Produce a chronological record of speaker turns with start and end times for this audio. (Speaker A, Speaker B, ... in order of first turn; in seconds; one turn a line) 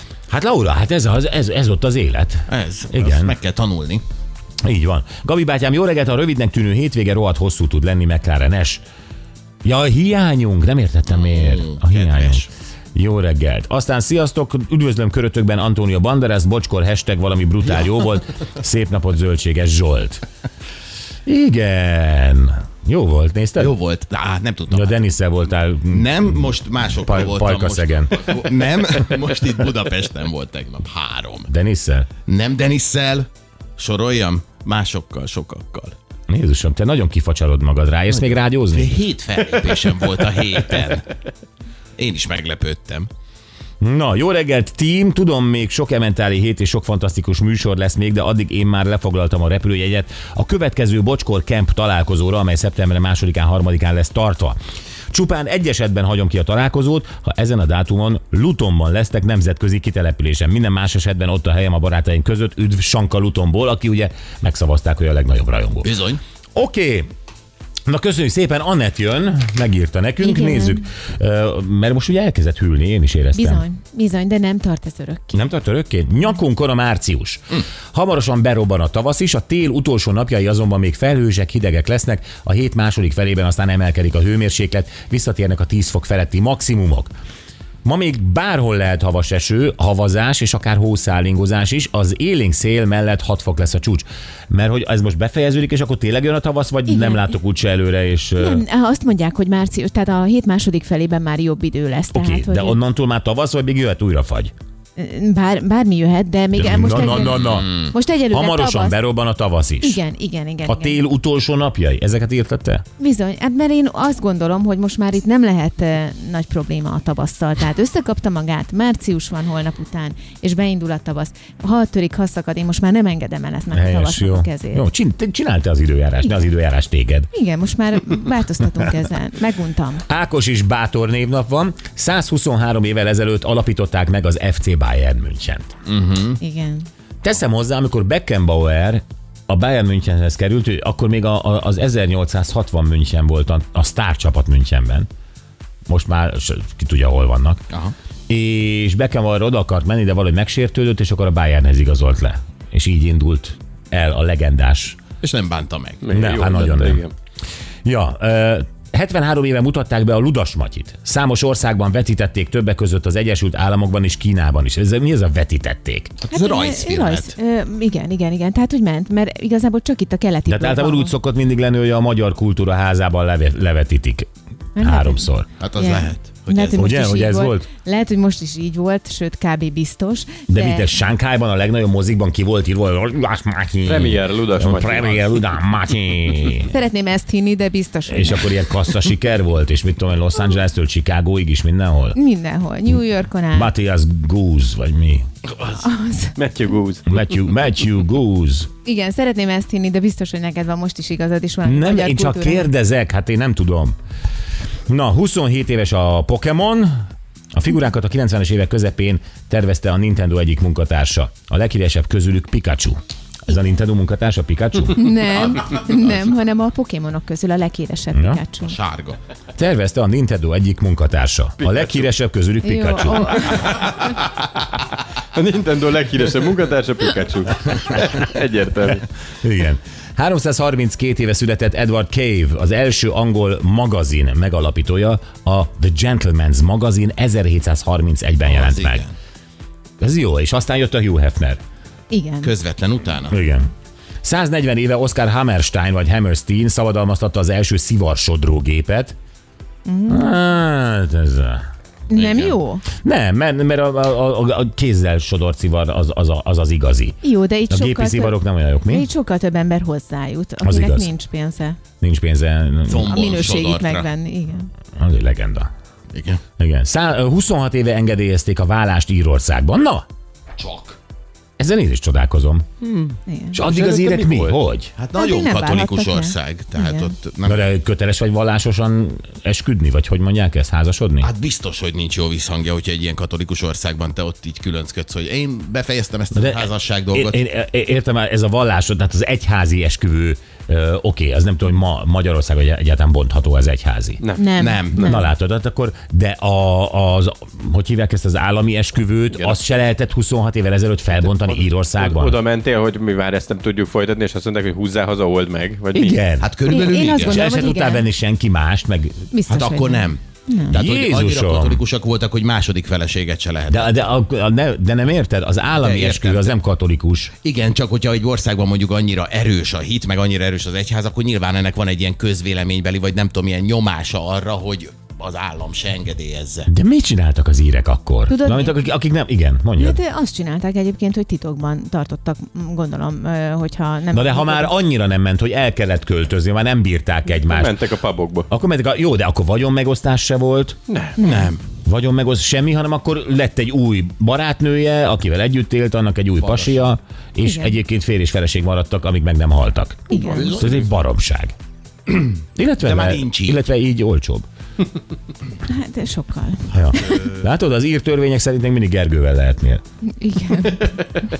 Speaker A: 0.3-3.3
Speaker B: 2.5-4.0
Speaker A: 4.6-8.8
Speaker A: 9.6-20.2
Speaker B: 11.1-12.5
Speaker A: 21.2-23.7
Speaker B: 23.6-25.0
Speaker A: 24.7-26.4
Speaker B: 25.9-31.5
Speaker A: 27.0-28.4
Speaker A: 31.5-32.1
Speaker B: 32.2-35.9
Speaker A: 36.3-39.0
Speaker B: 38.1-41.0
Speaker B: 42.0-43.1
Speaker A: 43.8-54.5
Speaker A: 55.1-65.9
Speaker B: 65.8-66.2
Speaker A: 66.5-67.1
Speaker A: 67.9-73.6
Speaker C: 70.2-70.8
Speaker C: 73.3-75.5
Speaker A: 75.3-87.1
Speaker A: 87.8-98.6
Speaker C: 96.9-97.3
Speaker C: 98.4-102.8
Speaker A: 102.1-104.5
Speaker C: 105.0-109.0
Speaker A: 106.5-107.7
Speaker B: 107.2-107.9
Speaker A: 108.3-110.0
Speaker C: 109.8-111.0
Speaker A: 110.7-112.8
Speaker C: 113.0-124.8
Speaker A: 123.7-127.3
Speaker C: 126.2-126.5
Speaker C: 127.3-130.0
Speaker A: 130.1-135.7
Speaker B: 135.9-136.4
Speaker C: 136.4-136.9
Speaker A: 137.2-145.1
Speaker A: 145.9-147.6
Speaker A: 148.3-155.0
Speaker B: 155.2-156.1
Speaker D: 156.0-157.1
Speaker A: 156.1-157.0
Speaker A: 157.8-166.2
Speaker B: 166.2-167.3
Speaker C: 166.3-171.1
Speaker A: 170.5-175.5
Speaker C: 174.8-180.9
Speaker B: 175.6-176.9
Speaker A: 176.8-177.7
Speaker A: 180.5-186.7
Speaker D: 183.8-185.5
Speaker C: 186.5-188.6
Speaker A: 188.1-192.2
Speaker C: 192.1-193.7
Speaker A: 193.5-195.2
Speaker C: 195.7-196.4
Speaker D: 196.4-197.0
Speaker A: 197.1-198.7
Speaker C: 198.8-202.7
Speaker A: 201.6-203.9
Speaker A: 204.9-207.0
Speaker A: 207.5-215.1
Speaker C: 214.9-218.8
Speaker A: 218.1-218.4
Speaker B: 218.6-219.2
Speaker A: 219.6-223.6
Speaker C: 222.6-224.1
Speaker D: 225.3-229.1
Speaker A: 229.4-239.0
Speaker B: 238.4-239.2
Speaker A: 240.0-241.6
Speaker C: 242.1-242.5
Speaker B: 242.4-243.4
Speaker A: 243.3-243.7
Speaker A: 244.2-249.1
Speaker C: 249.8-250.4
Speaker A: 250.1-251.6
Speaker B: 252.1-252.6
Speaker C: 252.1-252.8
Speaker A: 253.0-257.1
Speaker C: 257.2-261.8
Speaker A: 257.7-259.1
Speaker A: 260.6-261.1
Speaker A: 262.0-263.2
Speaker B: 262.9-264.1
Speaker C: 263.0-264.7
Speaker A: 265.0-265.7
Speaker B: 266.1-266.4
Speaker A: 266.6-270.0
Speaker B: 270.6-271.0
Speaker A: 271.6-272.8
Speaker C: 273.2-273.6
Speaker A: 273.5-274.9
Speaker D: 273.6-274.6
Speaker B: 275.0-277.7
Speaker C: 275.1-277.1
Speaker A: 277.4-281.3
Speaker B: 281.2-287.4
Speaker A: 286.3-294.2
Speaker D: 294.2-294.5
Speaker C: 294.4-295.3
Speaker B: 294.6-295.2
Speaker A: 295.0-302.4
Speaker D: 299.3-299.6
Speaker D: 301.2-306.2
Speaker A: 305.9-306.5
Speaker B: 306.4-307.5
Speaker C: 306.6-308.1
Speaker A: 307.2-309.3
Speaker C: 309.3-310.8
Speaker B: 309.5-313.9
Speaker A: 310.7-311.8
Speaker A: 313.7-317.3
Speaker B: 315.8-316.5
Speaker B: 317.4-326.7
Speaker A: 326.7-330.0
Speaker C: 328.3-328.9
Speaker C: 329.7-334.7
Speaker A: 334.1-337.8
Speaker D: 337.3-338.5
Speaker A: 338.5-340.8
Speaker D: 340.9-341.2
Speaker C: 341.2-341.5
Speaker B: 341.2-341.6
Speaker A: 341.8-351.5
Speaker B: 346.4-346.9
Speaker C: 347.4-347.8
Speaker C: 350.1-350.6
Speaker B: 350.1-350.9
Speaker A: 352.5-354.4
Speaker B: 352.8-353.6
Speaker C: 355.6-357.2
Speaker A: 356.7-359.8
Speaker C: 360.2-360.9